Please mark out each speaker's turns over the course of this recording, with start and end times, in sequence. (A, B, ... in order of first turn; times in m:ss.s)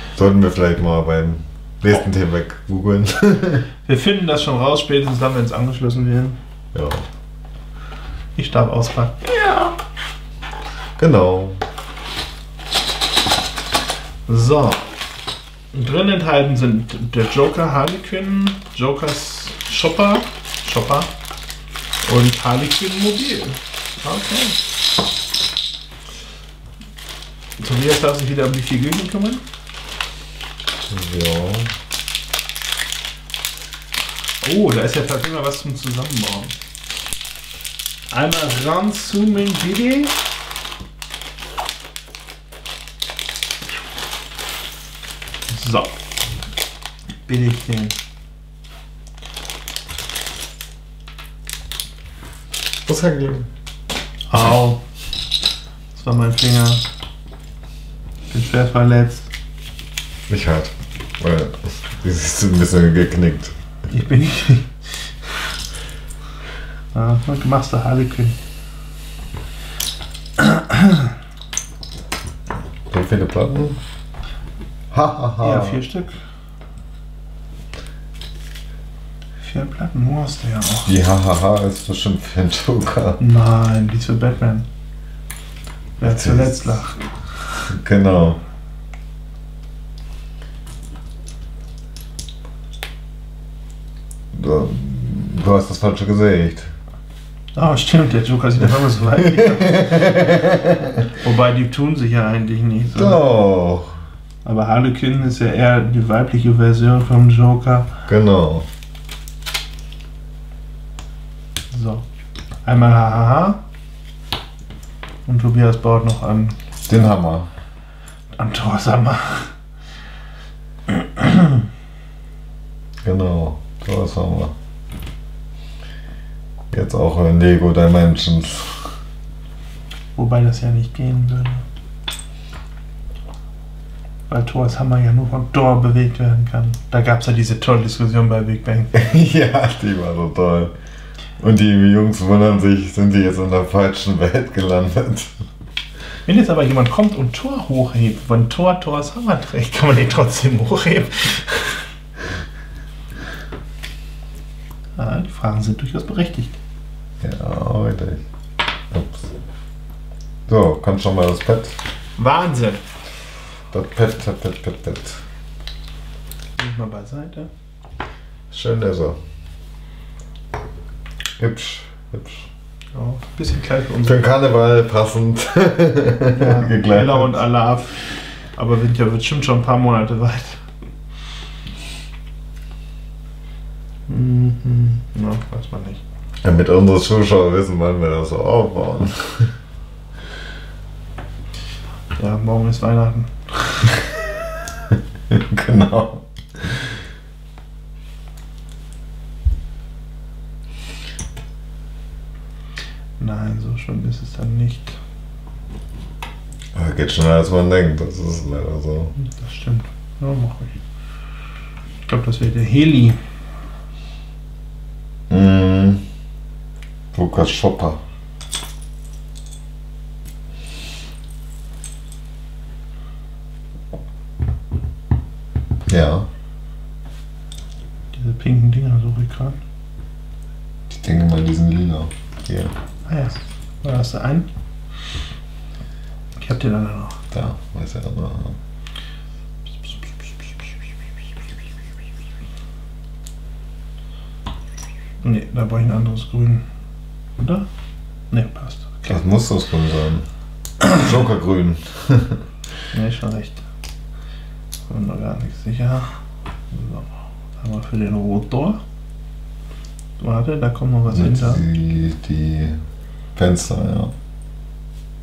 0:00.2-0:03.7 A
0:03.8-0:06.4 B
0:06.7-0:07.0 A
0:08.4-0:09.7 B
0:11.0-0:11.6 A
0:14.3-0:14.9 B
0:15.7-0:21.1 B
0:22.0-0:24.6 B
0:27.6-0:29.4 B
0:30.9-0:31.7 A
0:34.4-0:36.6 B
0:38.1-0:40.2 B
0:45.5-0:45.9 B
0:47.2-0:47.9 B
0:52.8-0:53.5 A
0:54.3-0:54.8 B
0:55.9-0:56.8 B
0:58.3-0:59.3 B
1:00.3-1:03.5 A
1:03.9-1:05.5 B
1:06.9-1:08.4 B
1:10.4-1:11.1 B
1:12.9-1:13.8 A
1:14.9-1:15.8 A
1:15.4-1:16.2 B
1:19.4-1:20.9 B
1:20.8-1:23.2 A
1:23.2-1:24.6 B
1:26.0-1:27.7 B
1:26.0-1:26.7 A
1:27.7-1:28.4 A
1:34.3-1:36.7 A
1:37.5-1:40.0 B
1:39.1-1:41.0 A
1:41.1-1:43.2 B
1:42.9-1:44.0 A
1:44.4-1:47.9 B
1:48.1-1:48.6 A
1:51.7-1:52.0 B
1:52.6-1:53.6 B
1:55.2-1:56.6 B
1:56.8-1:57.5 A
1:58.3-1:59.5 B
2:00.9-2:01.6 B
2:03.0-2:04.5 A
2:06.7-2:08.9 A
2:10.2-2:11.6 B
2:14.3-2:18.9 B
2:18.9-2:20.7 A
2:21.4-2:25.3 A
2:26.2-2:31.9 B
2:35.0-2:36.6 B
2:37.2-2:38.2 A
2:38.9-2:39.3 A
2:40.5-2:41.8 A
2:42.2-2:42.8 B
2:43.7-2:45.2 A
2:46.6-2:47.5 B
2:48.5-2:49.2 A
2:51.4-2:52.5 A
2:52.9-2:54.2 B
2:54.0-2:57.4 A
2:56.4-3:00.7 B
3:04.1-3:06.0 B
3:06.4-3:09.5 A
3:12.2-3:14.1 B
3:15.3-3:16.9 A
3:23.2-3:25.0 B
3:26.7-3:29.1 A
3:29.2-3:30.8 B
3:32.1-3:33.2 B
3:35.3-3:36.0 A
3:37.1-3:38.0 A
3:45.9-3:46.3 A
3:48.1-3:49.6 B
3:50.9-3:52.7 A
3:53.1-3:54.5 B
3:56.4-3:57.2 B
3:57.3-3:58.6 A
4:05.2-4:06.6 B
4:07.4-4:07.7 B
4:08.3-4:09.2 B
4:09.1-4:10.2 A
4:10.9-4:12.4 A
4:12.9-4:13.6 B
4:14.9-4:16.1 B
4:16.7-4:18.8 B
4:20.2-4:21.6 B
4:21.1-4:22.8 A
4:23.4-4:24.1 A